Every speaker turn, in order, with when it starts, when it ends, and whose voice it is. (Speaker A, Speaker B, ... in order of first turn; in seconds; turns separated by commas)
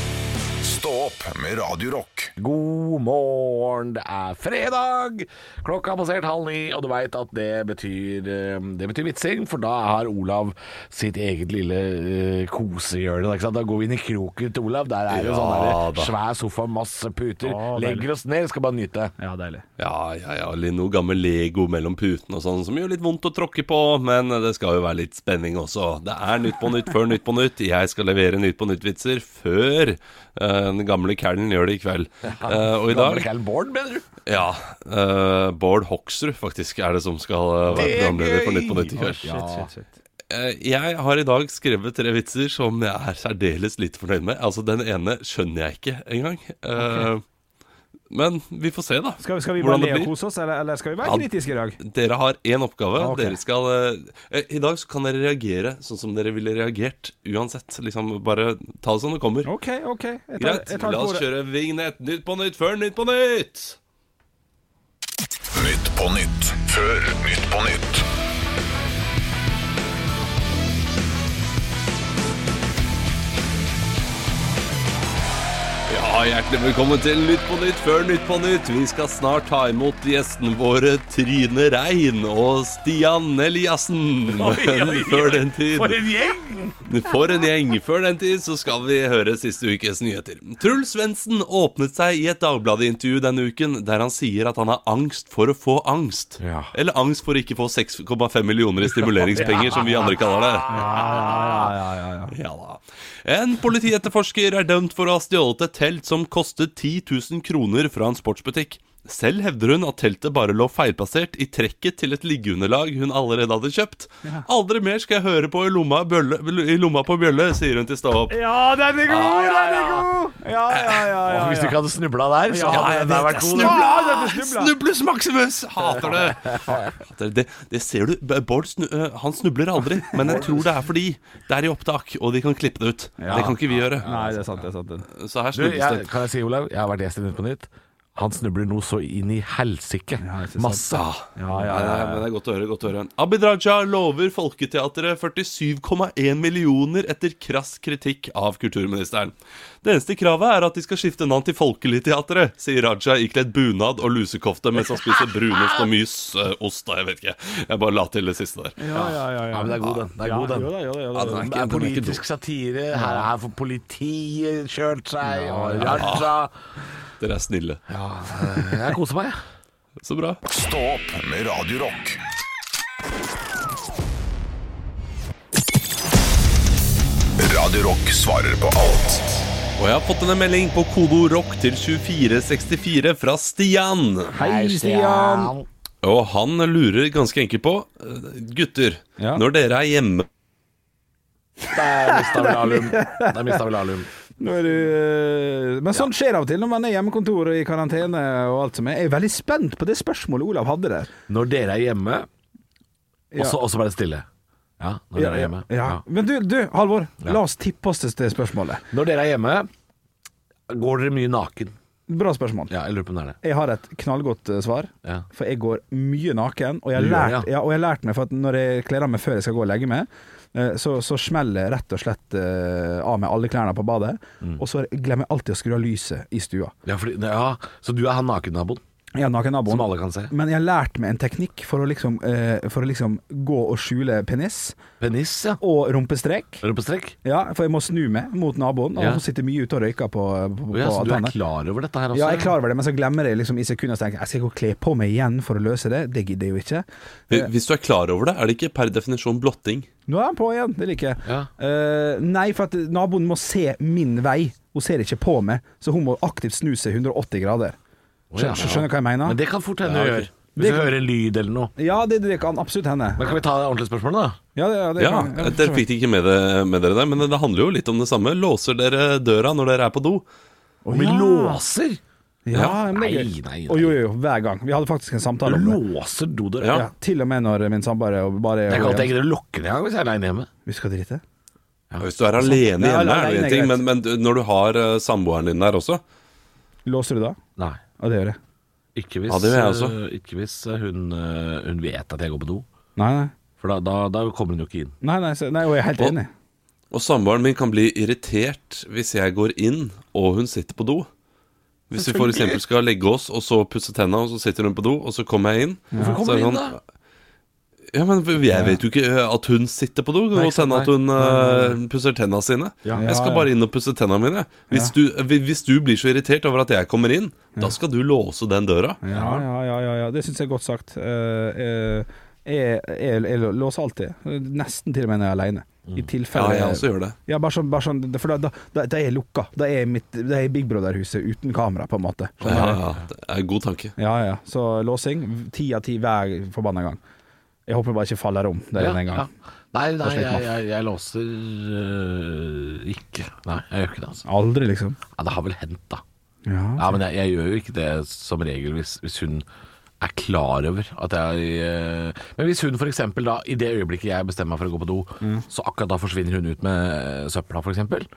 Speaker A: 0.6-2.3, Speaker B: 2.4-19.1, Speaker C: 15.1-16.1, Speaker D: 17.4-18.1, Speaker D: 19.2-19.6, Speaker C: 19.8-33.3, Speaker B: 32.4-34.1, Speaker C: 34.2-39.3, Speaker B: 37.7-39.7, Speaker D: 38.9-39.9, Speaker C: 40.3-47.2, Speaker D: 46.8-47.1, Speaker C: 48.1-50.1, Speaker D: 49.2-51.8, Speaker C: 51.0-59.5, Speaker D: 53.0-53.4, Speaker D: 59.4-61.2, Speaker C: 60.4-63.8, Speaker A: 65.5-68.0, Speaker C: 75.9-86.0, Speaker B: 84.3-86.9, Speaker C: 86.8-101.7, Speaker B: 96.4-96.7, Speaker B: 99.2-100.2, Speaker D: 100.7-102.3, Speaker B: 100.8-101.5, Speaker C: 102.3-118.4, Speaker D: 118.3-121.8, Speaker C: 119.1-120.0, Speaker B: 121.2-123.8, Speaker D: 122.5-124.7, Speaker C: 122.6-134.1, Speaker B: 126.0-126.9, Speaker D: 133.2-135.1, Speaker B: 133.3-134.5, Speaker C: 135.2-136.1, Speaker B: 135.5-141.1, Speaker D: 140.2-142.2, Speaker C: 140.9-158.8, Speaker B: 155.4-155.9, Speaker D: 158.8-161.5, Speaker B: 158.9-160.7, Speaker C: 161.1-162.2, Speaker B: 161.3-166.5, Speaker D: 162.9-163.3, Speaker D: 165.2-166.1, Speaker C: 165.8-166.3, Speaker C: 167.2-167.8, Speaker B: 167.9-169.4, Speaker C: 170.0-170.4, Speaker A: 170.5-172.2, Speaker A: 177.4-179.4, Speaker C: 179.8-184.3, Speaker B: 184.3-185.7, Speaker D: 184.3-185.5, Speaker C: 186.0-190.3, Speaker D: 191.7-193.6, Speaker B: 191.7-194.1, Speaker D: 194.4-201.1, Speaker B: 201.3-202.3, Speaker B: 203.3-204.2, Speaker B: 204.8-206.0, Speaker D: 205.1-208.8, Speaker B: 208.9-209.7, Speaker B: 210.7-211.7, Speaker D: 212.1-212.7, Speaker B: 212.7-213.4, Speaker D: 213.4-226.7, Speaker B: 216.9-217.5, Speaker B: 226.8-228.8, Speaker D: 229.1-234.8, Speaker B: 229.7-230.3, Speaker B: 235.0-235.6, Speaker D: 235.6-236.6, Speaker B: 236.6-237.2, Speaker D: 237.2-241.3, Speaker B: 238.9-239.2, Speaker B: 240.7-242.5, Speaker D: 242.1-247.5, Speaker C: 247.3-249.9, Speaker D: 250.1-257.8, Speaker B: 258.3-261.7, Speaker D: 258.4-260.9, Speaker D: 261.8-263.3, Speaker B: 263.2-264.4, Speaker D: 264.6-265.8, Speaker C: 265.0-270.2, Speaker D: 270.8-271.6, Speaker B: 270.9-272.0, Speaker D: 272.4-275.8, Speaker B: 272.6-274.0, Speaker B: 275.4-276.8, Speaker C: 276.6-276.9, Speaker D: 276.7-279.1, Speaker B: 278.7-280.5, Speaker D: 280.6-281.2, Speaker C: 282.0-286.0, Speaker D: 282.4-283.8, Speaker D: 286.9-287.4, Speaker D: 288.0-288.4, Speaker B: 288.9-292.6, Speaker C: 289.3-289.9, Speaker D: 293.0-293.3, Speaker B: 293.6-294.9, Speaker D: 295.0-296.3, Speaker C: 296.9-301.1, Speaker C: 301.9-306.8, Speaker B: 301.9-302.6, Speaker D: 305.9-306.2, Speaker B: 305.9-306.8, Speaker C: 307.9-319.0, Speaker D: 308.5-308.8, Speaker B: 310.3-310.9, Speaker D: 311.2-311.7, Speaker D: 312.9-313.5, Speaker D: 319.0-332.8, Speaker B: 319.1-319.4, Speaker C: 326.3-327.1, Speaker B: 332.4-332.8, Speaker C: 332.4-333.9, Speaker D: 334.0-337.0, Speaker D: 337.7-339.3, Speaker B: 338.8-344.2, Speaker D: 340.0-340.5, Speaker D: 344.2-345.0, Speaker B: 345.1-346.0, Speaker D: 346.4-346.9, Speaker B: 346.8-349.4, Speaker B: 350.0-358.1